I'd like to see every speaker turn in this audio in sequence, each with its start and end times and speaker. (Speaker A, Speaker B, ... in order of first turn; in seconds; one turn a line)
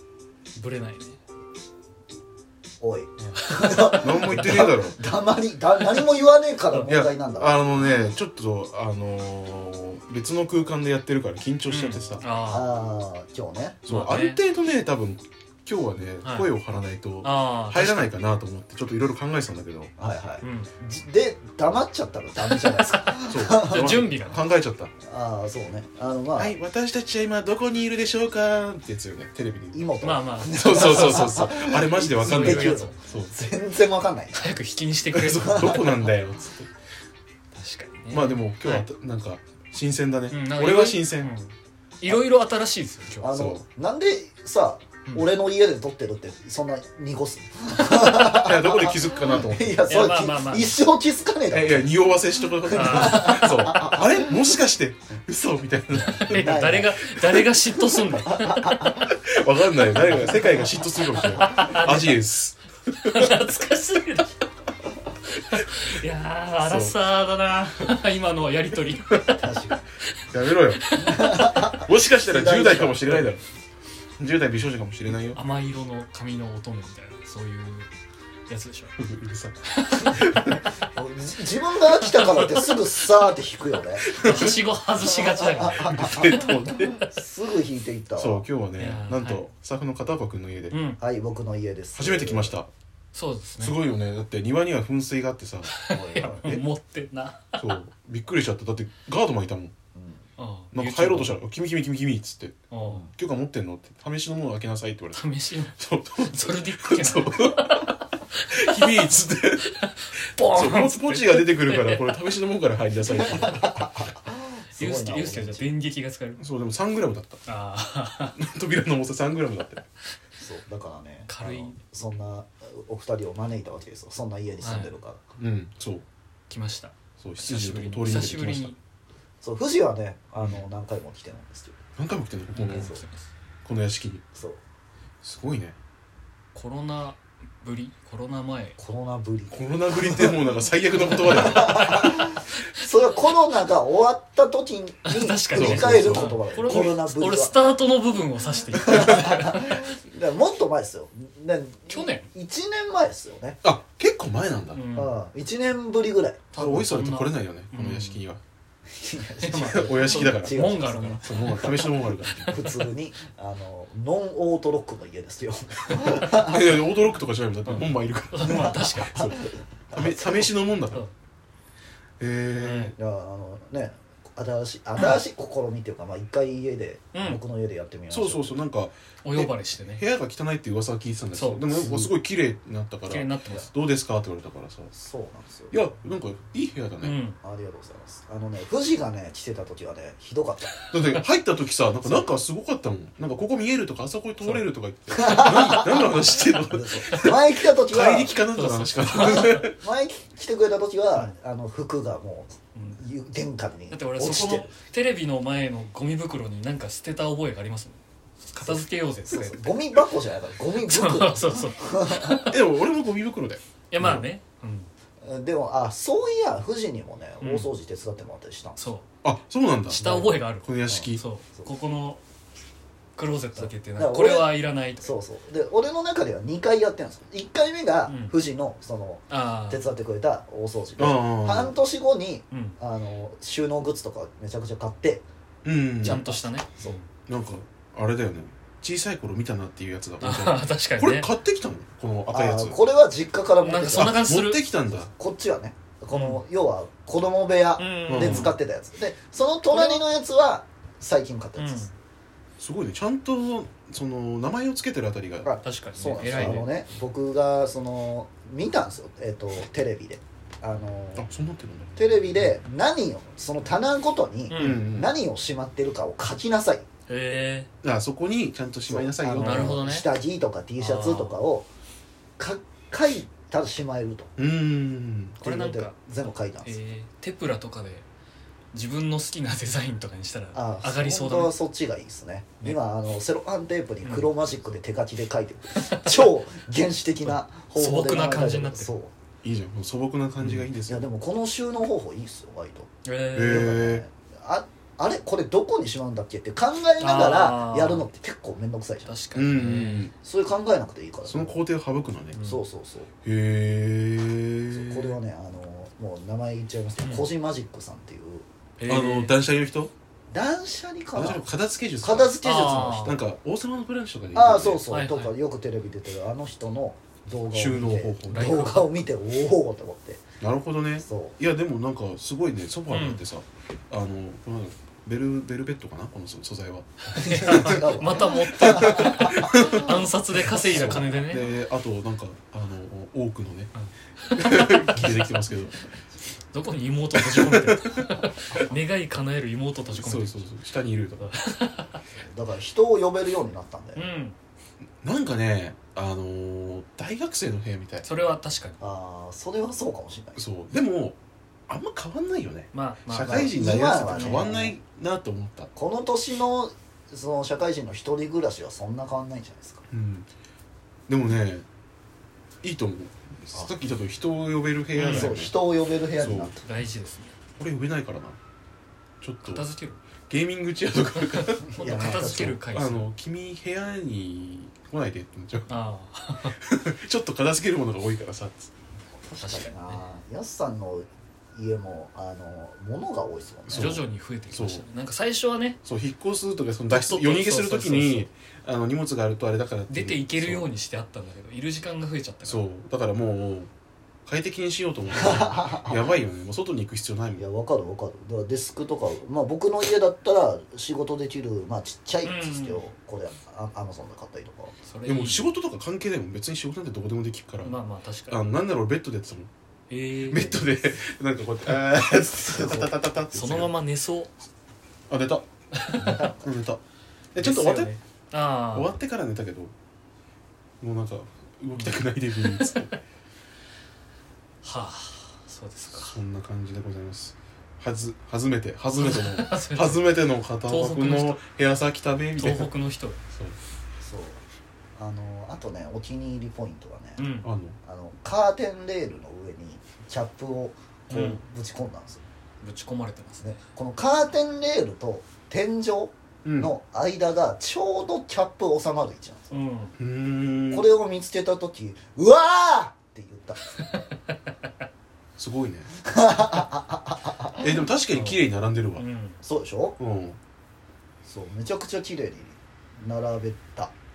Speaker A: 0.6-1.2
Speaker B: 2.8-7.6
Speaker A: 3.4-4.5
Speaker C: 4.0-5.0
Speaker C: 6.8-12.3
Speaker A: 11.7-12.7
Speaker B: 12.5-13.8
Speaker C: 13.9-19.9
Speaker A: 13.9-14.4
Speaker A: 16.2-16.5
Speaker A: 17.2-18.1
Speaker B: 20.0-24.0
Speaker A: 20.4-20.7
Speaker A: 22.5-24.4
Speaker C: 23.3-24.9
Speaker B: 25.0-26.5
Speaker C: 26.4-29.8
Speaker B: 29.7-34.5
Speaker A: 30.0-31.3
Speaker C: 30.5-33.4
Speaker A: 32.2-32.9
Speaker A: 34.3-35.9
Speaker C: 35.1-36.7
Speaker B: 35.3-36.2
Speaker A: 37.5-38.9
Speaker C: 38.1-41.3
Speaker A: 40.3-43.3
Speaker B: 43.2-54.4
Speaker C: 43.3-43.6
Speaker C: 48.2-49.9
Speaker A: 49.9-50.8
Speaker C: 51.5-58.2
Speaker A: 52.7-53.4
Speaker A: 56.1-59.0
Speaker B: 56.3-57.0
Speaker B: 58.2-59.0
Speaker C: 59.0-63.4
Speaker A: 60.0-60.4
Speaker B: 60.0-60.5
Speaker B: 61.3-62.0
Speaker A: 61.4-62.1
Speaker A: 63.0-64.3
Speaker A: 65.3-69.5
Speaker C: 66.6-67.0
Speaker B: 69.4-69.8
Speaker C: 70.3-70.8
Speaker A: 70.8-71.6
Speaker B: 70.9-73.2
Speaker C: 71.7-73.4
Speaker C: 74.2-75.4
Speaker A: 75.3-77.9
Speaker A: 78.5-79.0
Speaker C: 79.0-80.6
Speaker A: 79.7-80.4
Speaker B: 80.9-84.2
Speaker C: 84.0-84.6
Speaker A: 84.2-86.5
Speaker B: 85.0-88.5
Speaker C: 85.7-87.1
Speaker C: 88.2-90.8
Speaker A: 88.8-89.5
Speaker A: 90.7-91.0
Speaker B: 91.0-92.6
Speaker C: 92.0-92.7
Speaker A: 93.1-93.8
Speaker C: 93.6-96.7
Speaker A: 95.7-97.7
Speaker B: 96.0-96.5
Speaker C: 97.6-99.7
Speaker B: 99.9-100.2
Speaker A: 100.4-101.4
Speaker C: 100.7-102.6
Speaker A: 102.7-103.1
Speaker C: 103.1-105.2
Speaker A: 105.1-112.2
Speaker C: 105.8-108.0
Speaker C: 108.5-114.0
Speaker B: 113.1-115.7
Speaker A: 114.7-116.4
Speaker C: 116.4-117.4
Speaker A: 117.5-118.4
Speaker C: 118.3-119.8
Speaker B: 120.4-125.2
Speaker A: 121.3-121.8
Speaker A: 124.6-124.9
Speaker C: 125.4-126.0
Speaker A: 126.5-128.8
Speaker C: 127.2-128.8
Speaker B: 128.0-128.4
Speaker B: 129.4-131.8
Speaker C: 132.0-132.9
Speaker A: 132.5-133.3
Speaker B: 132.7-133.0
Speaker C: 133.6-134.2
Speaker B: 134.3-134.6
Speaker C: 135.2-135.8
Speaker A: 136.5-138.8
Speaker B: 138.8-140.4
Speaker C: 139.5-142.3
Speaker A: 141.0-142.2
Speaker B: 141.2-147.5
Speaker A: 145.1-149.8
Speaker C: 145.5-147.0
Speaker B: 148.7-153.6
Speaker A: 151.9-152.3
Speaker C: 153.6-154.8
Speaker A: 154.7-155.1
Speaker B: 154.9-156.5
Speaker A: 156.5-158.2
Speaker C: 156.6-158.4
Speaker B: 158.9-166.8
Speaker A: 159.4-162.7
Speaker C: 159.5-162.6
Speaker C: 166.3-171.1
Speaker A: 167.7-169.2
Speaker B: 168.4-170.5
Speaker C: 172.2-172.9
Speaker A: 172.6-172.9
Speaker B: 172.9-178.6
Speaker A: 177.1-177.4
Speaker C: 178.1-184.9
Speaker A: 179.2-180.0
Speaker A: 181.3-182.0
Speaker B: 181.8-182.1
Speaker A: 183.1-183.7
Speaker B: 184.9-185.8
Speaker C: 185.7-187.2
Speaker A: 187.0-187.4
Speaker B: 187.4-190.8
Speaker C: 190.9-199.8
Speaker B: 192.0-192.3
Speaker A: 194.4-194.7
Speaker B: 195.1-198.4
Speaker A: 195.7-196.5
Speaker A: 198.5-199.7
Speaker B: 199.2-204.7
Speaker A: 202.8-203.0
Speaker A: 203.9-210.0
Speaker B: 208.6-212.4
Speaker A: 210.8-212.6
Speaker C: 212.4-214.2
Speaker A: 213.9-214.9
Speaker B: 215.2-218.8
Speaker A: 217.4-217.7
Speaker A: 218.8-219.0
Speaker C: 219.2-220.0
Speaker B: 219.9-221.7
Speaker A: 219.9-222.2
Speaker C: 220.6-221.2
Speaker A: 223.2-225.1
Speaker B: 223.6-235.2
Speaker A: 228.1-228.3
Speaker A: 229.3-229.8
Speaker C: 231.0-231.7
Speaker A: 232.5-232.8
Speaker C: 235.6-236.2
Speaker B: 236.0-236.9
Speaker A: 236.0-237.1
Speaker C: 237.3-242.8
Speaker A: 240.2-241.3
Speaker B: 242.3-244.2
Speaker A: 243.6-244.6
Speaker C: 243.9-245.1
Speaker B: 244.9-251.9
Speaker A: 246.1-246.4
Speaker A: 247.8-248.5
Speaker C: 248.1-248.6
Speaker A: 249.7-250.1
Speaker A: 251.6-251.9
Speaker C: 252.6-255.5
Speaker B: 255.4-261.3
Speaker A: 255.6-256.7
Speaker C: 256.3-256.6
Speaker C: 261.1-261.9
Speaker B: 261.9-266.8
Speaker A: 264.5-264.8
Speaker C: 264.6-265.1
Speaker A: 267.1-267.7
Speaker C: 267.8-269.8
Speaker B: 268.9-271.7
Speaker A: 269.4-270.1
Speaker A: 270.8-271.4
Speaker B: 272.4-274.3
Speaker C: 274.4-275.4
Speaker B: 275.4-276.8
Speaker A: 275.4-278.1
Speaker A: 278.7-281.6
Speaker B: 280.5-289.1
Speaker A: 284.0-284.3
Speaker A: 285.7-286.2
Speaker A: 287.3-288.9
Speaker C: 289.4-291.1
Speaker A: 290.4-290.7
Speaker B: 290.9-299.1
Speaker A: 293.0-293.8
Speaker C: 293.3-294.0
Speaker A: 297.0-298.1
Speaker A: 299.1-300.1
Speaker C: 299.3-300.1
Speaker B: 300.2-301.6
Speaker C: 301.2-302.4
Speaker A: 302.3-302.6
Speaker B: 302.4-303.1
Speaker C: 303.2-305.2
Speaker B: 304.7-308.4
Speaker A: 307.0-307.3
Speaker A: 308.8-309.3
Speaker C: 308.9-309.9
Speaker B: 310.3-311.4
Speaker C: 311.1-312.4
Speaker B: 312.0-313.2
Speaker A: 312.4-313.2
Speaker C: 313.0-314.8
Speaker B: 314.3-320.2
Speaker A: 314.9-315.3
Speaker C: 317.5-318.7
Speaker A: 318.3-319.0
Speaker C: 320.4-330.0
Speaker B: 321.0-321.4
Speaker A: 322.9-323.2
Speaker A: 327.1-331.5
Speaker B: 327.1-329.7
Speaker C: 330.5-333.7
Speaker B: 330.7-331.2
Speaker A: 333.7-335.2
Speaker C: 334.4-335.8
Speaker A: 336.5-340.6
Speaker C: 337.1-338.1
Speaker C: 339.9-341.3
Speaker A: 341.2-342.0
Speaker B: 342.1-344.1
Speaker A: 343.9-344.4
Speaker C: 345.0-348.1
Speaker A: 348.0-348.8
Speaker B: 348.8-350.4
Speaker C: 350.4-351.2
Speaker C: 351.7-355.7
Speaker A: 352.7-354.5
Speaker B: 353.2-354.8
Speaker B: 355.8-359.8
Speaker C: 359.9-360.3
Speaker C: 361.1-361.6
Speaker C: 362.6-365.5
Speaker A: 364.9-365.4
Speaker B: 365.1-366.6
Speaker C: 366.2-366.5
Speaker A: 366.6-367.3
Speaker C: 367.6-368.4
Speaker C: 369.2-369.7
Speaker A: 369.4-370.0
Speaker C: 370.3-375.7
Speaker A: 371.3-373.1
Speaker B: 371.7-372.6
Speaker A: 375.7-376.6
Speaker C: 376.5-378.7
Speaker B: 379.2-384.0
Speaker A: 379.4-380.1
Speaker C: 383.7-384.9
Speaker A: 383.7-385.8
Speaker C: 385.8-390.7
Speaker A: 386.9-388.3
Speaker A: 389.9-392.7
Speaker C: 392.4-393.7
Speaker C: 394.2-397.4
Speaker B: 395.1-396.1
Speaker B: 397.4-404.8
Speaker A: 402.2-402.8
Speaker A: 404.8-405.5
Speaker C: 405.1-407.8
Speaker A: 407.6-408.4
Speaker C: 408.3-409.5
Speaker A: 409.9-410.6
Speaker C: 410.3-413.8
Speaker B: 412.2-412.9
Speaker A: 413.3-414.3
Speaker C: 415.1-415.4
Speaker A: 415.7-416.2
Speaker B: 415.9-416.6
Speaker C: 416.4-416.8
Speaker C: 417.3-417.9
Speaker A: 417.4-419.0
Speaker C: 418.7-419.7
Speaker C: 420.8-422.9
Speaker A: 421.7-422.8
Speaker A: 424.6-426.2
Speaker C: 425.9-432.7
Speaker A: 428.9-430.0
Speaker A: 430.6-431.4
Speaker A: 432.4-433.2
Speaker B: 434.0-434.4
Speaker B: 435.0-437.3
Speaker A: 437.2-437.5
Speaker C: 437.4-437.8
Speaker B: 437.8-442.2
Speaker A: 441.1-441.4
Speaker A: 442.6-443.5
Speaker B: 443.4-449.6
Speaker C: 446.4-446.7
Speaker A: 449.5-449.9
Speaker C: 450.0-450.9
Speaker B: 450.7-453.8
Speaker C: 455.4-455.9
Speaker B: 456.0-457.8
Speaker C: 457.6-459.0
Speaker A: 458.1-458.4
Speaker A: 459.0-459.4
Speaker B: 459.4-460.0
Speaker C: 460.0-460.4
Speaker B: 461.2-463.9